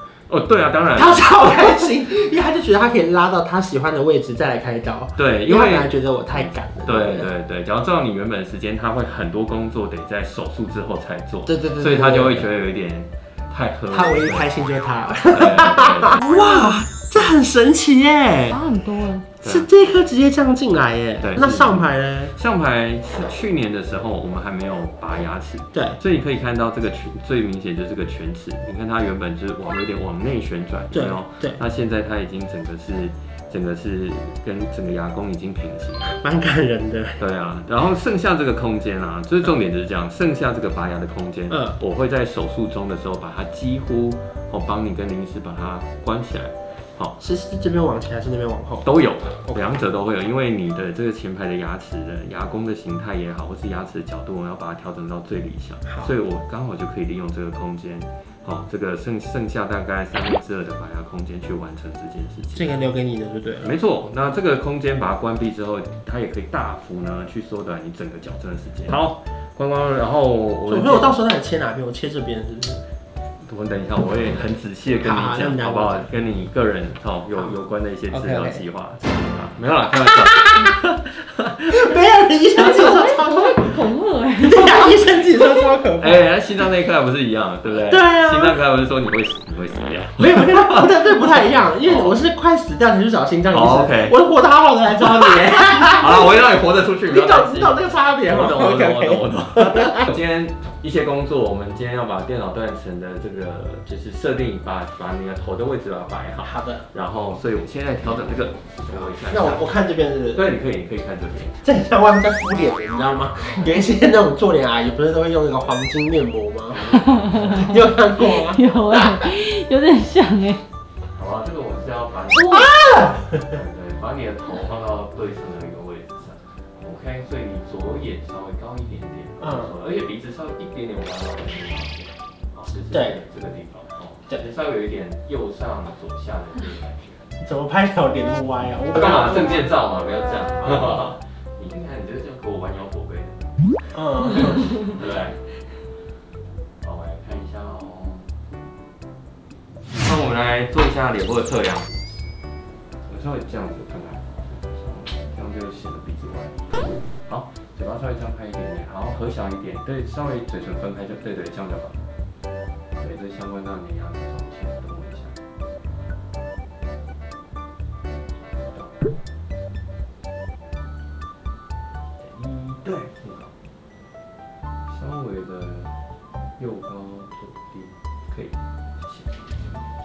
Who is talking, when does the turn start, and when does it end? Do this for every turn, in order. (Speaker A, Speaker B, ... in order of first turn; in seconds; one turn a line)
Speaker A: 0.3-1.8
Speaker B: 0.9-7.3
Speaker A: 5.2-14.5
Speaker B: 11.5-12.5
Speaker B: 13.9-18.6
Speaker A: 15.3-16.2
Speaker C: 16.4-16.8
Speaker C: 18.5-19.3
Speaker A: 19.4-19.7
Speaker B: 19.4-22.4
Speaker A: 21.2-36.1
Speaker B: 25.7-26.0
Speaker B: 30.9-31.6
Speaker B: 36.1-37.2
Speaker A: 37.2-47.2
Speaker B: 41.5-41.8
Speaker B: 47.2-48.9
Speaker A: 48.8-62.8
Speaker B: 49.5-49.9
Speaker B: 62.5-63.7
Speaker A: 63.6-71.2
Speaker B: 70.7-72.8
Speaker A: 73.4-81.9
Speaker B: 75.0-76.1
Speaker B: 78.1-78.7
Speaker B: 80.3-80.7
Speaker B: 81.7-83.7
Speaker C: 82.6-85.0
Speaker B: 84.4-86.3
Speaker A: 86.0-92.2
Speaker B: 87.7-88.6
Speaker B: 90.2-96.3
Speaker A: 93.5-94.2
Speaker A: 95.0-109.7
Speaker B: 97.1-100.1
Speaker B: 106.4-106.9
Speaker B: 109.3-110.5
Speaker A: 110.3-111.6
Speaker B: 111.6-116.8
Speaker A: 116.7-117.8
Speaker C: 117.1-120.7
Speaker B: 117.5-119.2
Speaker A: 121.2-122.7
Speaker B: 122.3-123.6
Speaker C: 122.4-122.7
Speaker A: 123.5-137.3
Speaker B: 129.4-129.8
Speaker B: 132.9-133.2
Speaker B: 137.4-139.7
Speaker A: 138.9-143.4
Speaker B: 143.9-144.8
Speaker A: 144.7-145.4
Speaker A: 146.8-148.3
Speaker A: 149.9-152.0
Speaker A: 153.0-162.0
Speaker A: 163.0-165.4
Speaker A: 168.5-169.1
Speaker A: 172.2-173.5
Speaker A: 174.9-175.9
Speaker A: 176.6-179.9